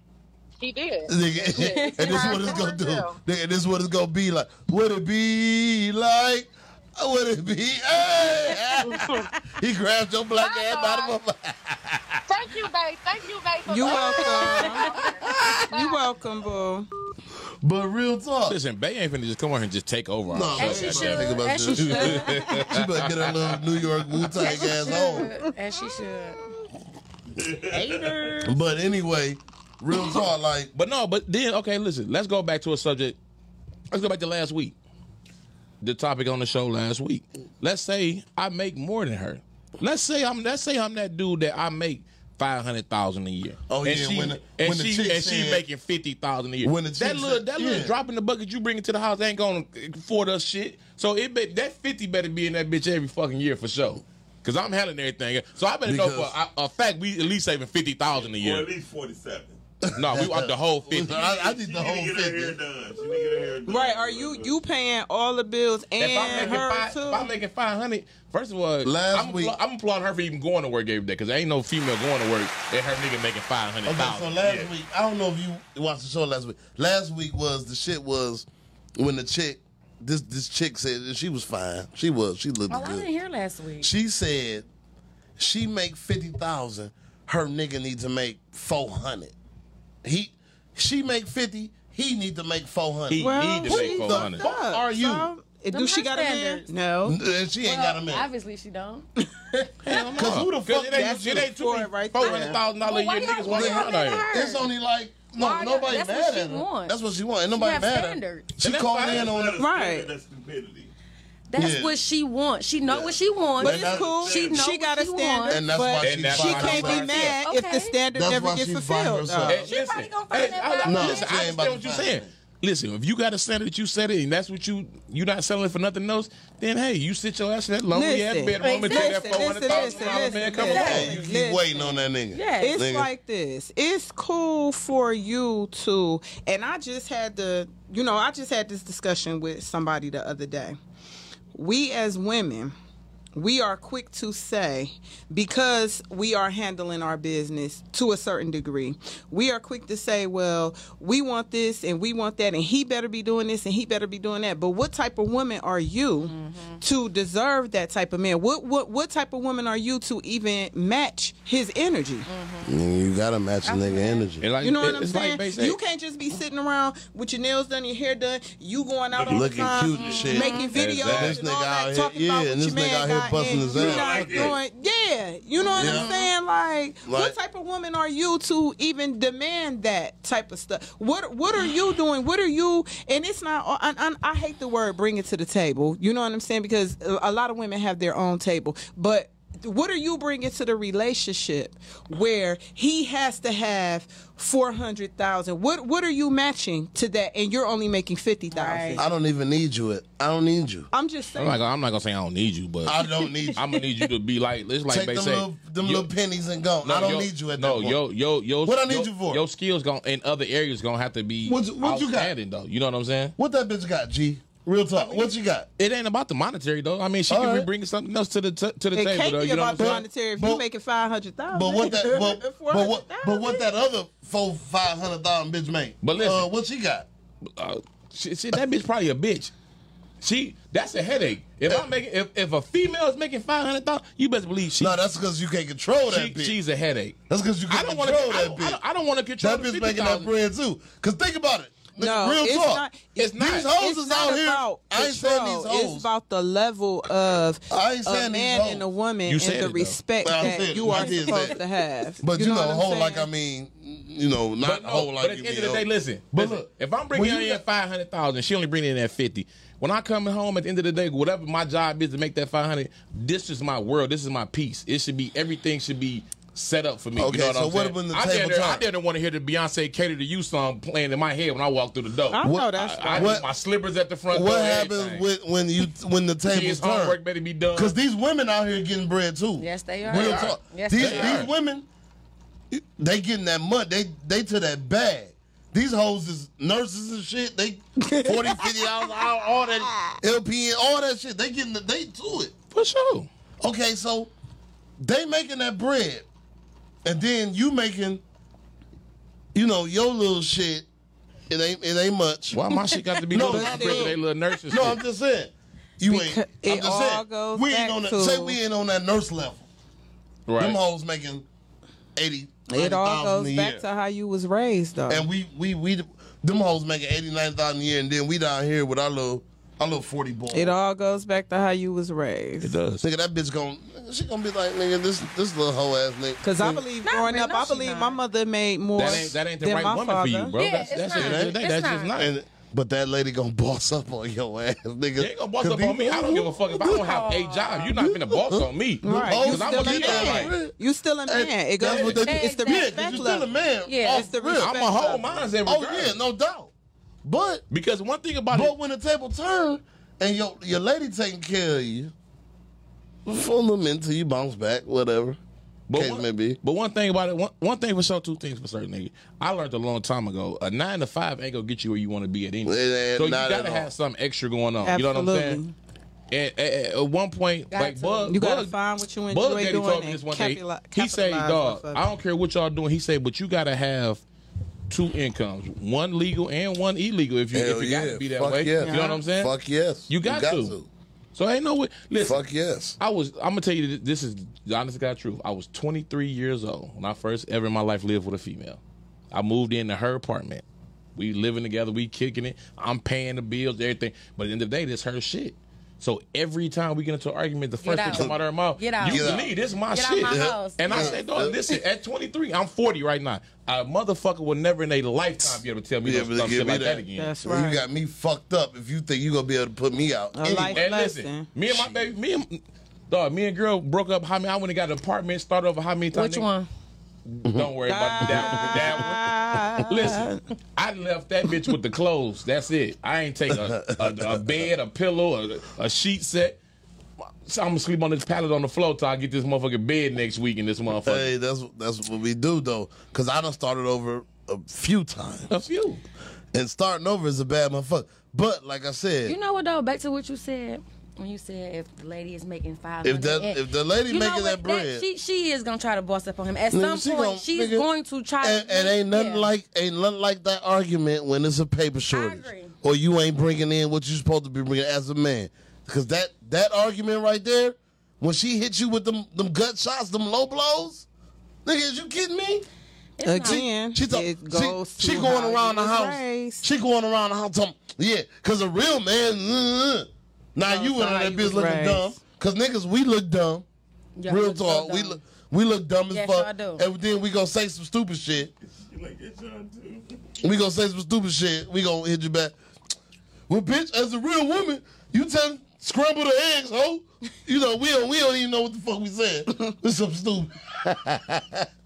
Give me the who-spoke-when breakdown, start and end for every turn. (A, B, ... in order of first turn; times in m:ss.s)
0:00.6-0:03.2 A
0:01.1-0:12.6 B
0:01.5-0:02.6 C
0:08.5-0:09.2 C
0:09.0-0:09.2 A
0:10.4-0:11.2 A
0:12.3-0:16.0 A
0:13.7-0:14.9 D
0:13.8-0:15.7 B
0:14.4-0:15.1 C
0:15.7-0:16.9 D
0:17.6-0:18.6 B
0:18.4-0:23.6 E
0:20.3-0:25.3 B
0:20.5-0:22.6 C
0:24.4-0:26.4 C
0:24.4-0:25.5 D
0:27.4-0:28.4 F
0:27.7-0:28.5 D
0:28.4-0:30.7 B
0:30.7-0:33.2 E
0:33.9-0:34.8 E
0:35.8-0:58.7 E
0:43.7-0:45.6 B
0:46.6-0:47.9 B
0:55.8-0:56.3 B
0:58.2-0:59.6 F
0:59.8-1:02.6 B
1:00.0-1:01.2 E
1:01.0-1:04.6 F
1:03.6-1:07.3 D
1:06.0-1:14.7 E
1:08.8-1:09.6 B
1:13.8-1:23.1 B
1:22.7-1:23.9 C
1:23.8-1:24.7 B
1:25.4-1:29.3 B
1:30.0-1:35.3 B
1:33.1-1:34.4 E
1:33.1-1:37.2 D
1:35.7-1:36.7 C
1:37.0-1:38.3 B
1:37.6-1:39.1 C
1:39.8-1:44.3 E
1:40.1-1:41.4 B
1:40.9-1:42.6 D
1:42.2-1:44.7 C
1:43.4-1:49.6 B
1:45.3-1:46.9 C
1:47.5-1:48.5 C
1:48.6-1:49.3 E
1:49.0-1:50.9 F
1:49.6-1:50.1 D
1:51.5-1:55.6 C
1:51.6-1:52.0 B
1:52.9-1:54.3 B
1:53.6-1:59.6 D
1:53.6-1:54.7 F
1:55.5-1:57.3 B
1:56.0-1:57.4 E
1:57.1-1:58.0 C
1:58.1-1:59.7 B
1:59.5-2:11.2 E
1:59.6-2:01.6 C
2:00.8-2:02.3 B
2:07.9-2:11.9 D
2:08.6-2:11.2 C
2:10.7-2:13.1 B
2:12.3-2:12.8 C
2:12.6-2:20.8 D
2:21.5-2:22.7 D
2:23.3-2:42.3 D
2:36.2-2:36.8 C
2:42.3-2:42.8 C
2:42.6-2:44.5 B
2:43.6-2:44.2 C
2:44.4-2:45.8 E
2:44.6-3:19.1 D
2:49.1-2:50.2 F
2:49.3-2:54.6 B
2:50.0-2:50.7 C
2:50.7-2:51.4 E
2:53.7-2:54.6 F
2:55.6-2:56.3 C
2:55.8-2:56.1 B
2:57.0-2:57.4 B
3:18.5-3:19.0 C
3:19.0-3:20.9 B
3:20.9-3:21.6 D
3:21.4-3:23.0 E
3:22.8-3:23.6 B
3:23.4-3:23.8 C
3:23.6-3:26.1 E
3:24.9-3:28.0 B
3:26.8-3:33.3 E
3:28.6-3:29.4 B
3:31.4-3:32.3 B
3:33.4-3:35.7 B
3:35.0-3:35.3 D
3:35.8-3:40.0 E
3:37.3-3:37.7 B
3:38.9-3:43.7 D
3:39.8-3:40.6 B
3:41.5-3:47.1 B
3:46.0-3:46.5 E
3:47.6-3:49.5 E
3:50.2-3:55.0 E
3:54.8-3:56.6 B
3:56.1-3:57.2 E
3:57.3-3:58.8 B
3:57.7-4:00.3 E
3:59.4-4:02.8 B
4:02.0-4:13.3 D
4:03.2-4:03.7 E
4:03.4-4:06.1 B
4:07.7-4:08.8 B
4:09.3-4:10.0 E
4:10.2-4:11.6 B
4:10.9-4:11.5 C
4:12.2-4:17.6 B
4:14.6-4:35.2 E
4:27.2-4:28.8 B
4:32.3-4:33.4 D
4:32.4-4:33.4 B
4:34.3-4:37.2 B
4:36.5-4:37.9 E
4:37.7-4:41.9 B
4:39.6-4:41.4 C
4:40.0-4:41.5 E
4:42.7-4:52.5 B
4:48.0-4:48.8 D
4:52.7-4:53.3 E
4:53.6-4:54.3 B
4:55.0-4:56.3 B
4:57.0-4:58.2 B
4:59.5-5:00.9 B
5:01.5-5:02.6 B
5:02.5-5:05.0 E
5:03.3-5:09.6 B
5:03.4-5:04.1 D
5:06.1-5:08.6 D
5:10.5-5:10.8 E
5:10.6-5:11.5 B
5:12.2-5:13.8 B
5:12.7-5:15.3 D
5:15.1-5:20.7 B
5:20.5-5:22.7 D
5:22.6-5:23.0 E
5:23.0-5:26.8 B
5:26.4-5:30.5 D
5:27.0-5:28.2 C
5:29.0-5:32.3 E
5:30.6-5:32.1 C
5:31.1-5:31.6 B
5:32.1-5:37.0 B
5:35.2-5:40.5 E
5:36.2-5:38.0 C
5:37.9-5:40.7 B
5:39.0-5:43.5 D
5:41.3-5:44.7 B
5:42.2-5:44.3 C
5:44.0-5:45.5 D
5:44.6-5:46.2 E
5:45.6-5:46.7 B
5:47.2-5:47.6 B
5:47.7-5:48.7 E
5:48.5-5:52.1 B
5:53.2-5:55.4 B
5:55.9-6:05.6 E
5:55.9-5:56.6 B
6:02.6-6:03.9 B
6:04.8-6:05.7 D
6:06.3-6:08.7 E
6:07.7-6:08.4 C
6:08.3-6:12.0 D
6:09.3-6:14.2 E
6:14.9-6:19.5 E
6:17.5-6:20.9 B
6:18.8-6:19.2 D
6:20.1-6:20.8 E
6:21.3-6:22.4 E
6:22.2-6:23.0 B
6:23.0-6:28.8 E
6:29.3-6:30.6 E
6:31.2-6:47.3 E
6:37.8-6:39.3 C
6:38.1-6:38.4 B
6:39.0-6:39.5 B
6:39.9-6:41.2 C
6:40.2-6:41.6 B
6:45.4-6:50.8 B
6:47.2-6:47.8 D
6:50.3-6:51.5 D
6:50.7-6:56.5 E
6:56.1-6:56.7 C
6:57.2-6:59.3 E
6:57.8-7:00.4 D
6:58.2-6:59.0 B
6:59.8-7:06.6 E
7:03.5-7:04.6 B
7:07.4-7:11.3 E
7:11.0-7:15.5 B
7:15.5-7:16.0 E
7:16.5-7:19.4 B
7:19.2-7:29.5 C
7:23.0-7:25.0 B
7:26.7-7:27.9 B
7:28.4-7:41.0 B
7:32.1-7:32.7 C
7:41.6-7:42.7 B
7:43.2-7:43.6 C
7:43.2-7:46.6 D
7:43.4-7:53.6 B
7:50.6-7:52.2 D
7:54.2-7:55.2 C
7:54.3-7:58.5 B
7:56.1-7:56.8 C
7:58.6-8:00.4 F
8:00.4-8:02.6 B
8:03.5-8:11.7 B